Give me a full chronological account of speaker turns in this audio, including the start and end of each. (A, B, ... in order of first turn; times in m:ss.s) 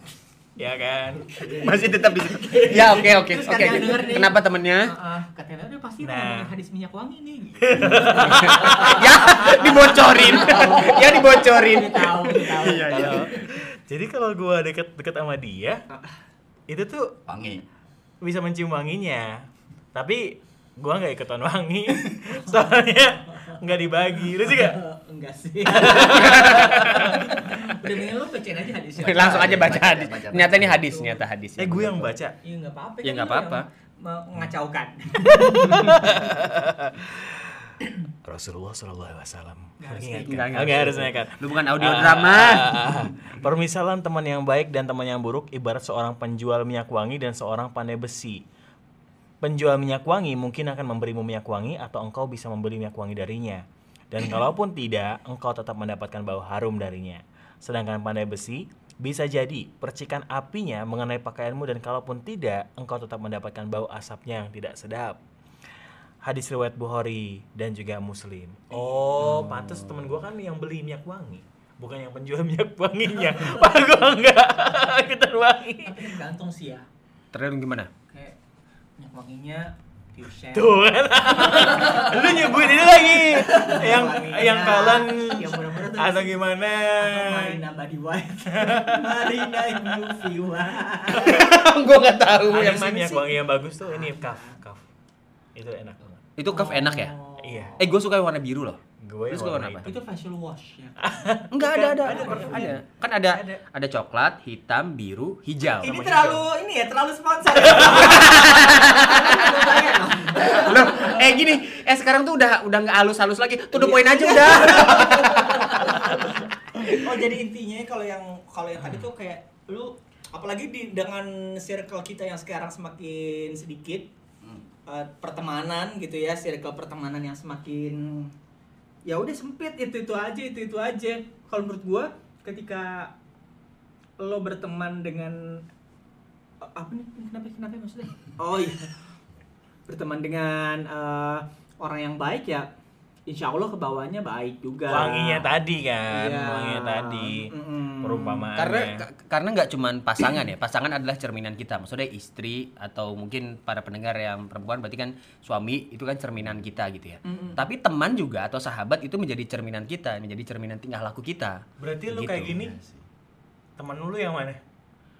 0:00.6-0:03.2 A
0:01.4-0:13.3 B
0:01.5-0:04.9 C
0:06.0-0:06.5 A
0:07.6-0:10.0 A
0:08.1-0:12.6 C
0:12.5-0:13.3 D
0:12.9-0:15.8 A
0:15.9-0:16.2 B
0:16.7-0:17.1 A
0:17.3-0:17.6 D
0:18.2-0:24.8 A
0:22.1-0:22.6 B
0:24.4-0:29.9 B
0:25.8-0:27.1 C
0:25.9-0:27.2 A
0:29.0-0:32.1 C
0:29.1-0:30.8 D
0:31.6-0:32.3 A
0:32.4-0:36.1 B
0:33.0-0:33.7 C
0:35.5-0:48.4 A
0:39.8-0:40.8 B
0:40.2-0:42.8 C
0:49.4-1:05.2 A
1:06.2-1:16.0 A
1:09.4-1:09.8 D
1:15.8-1:16.8 B
1:17.3-1:17.9 C
1:19.0-1:20.8 B
1:20.5-1:27.6 A
1:21.4-1:31.5 B
1:28.5-1:29.9 A
1:31.1-1:33.2 C
1:32.4-1:34.8 A
1:33.8-1:34.6 B
1:35.5-1:36.8 A
1:36.4-1:37.1 C
1:36.5-1:37.8 B
1:37.4-1:37.8 A
1:37.8-1:38.8 C
1:39.0-1:39.9 A
1:39.3-1:39.9 C
1:39.8-1:42.8 B
1:41.0-1:43.6 A
1:41.5-1:45.9 C
1:45.8-1:46.4 A
1:45.8-1:51.3 B
1:47.6-1:48.2 A
1:47.7-1:56.1 C
1:53.7-2:04.1 B
2:04.9-2:08.3 B
2:09.1-2:13.1 B
2:14.2-2:15.6 B
2:16.6-2:18.9 B
2:19.9-2:22.7 B
2:23.3-2:25.5 B
2:24.9-2:29.0 A
2:26.1-2:28.5 B
2:28.6-2:42.6 C
2:37.2-2:37.6 B
2:41.8-2:42.8 A
2:42.7-2:43.0 D
2:43.8-2:44.6 A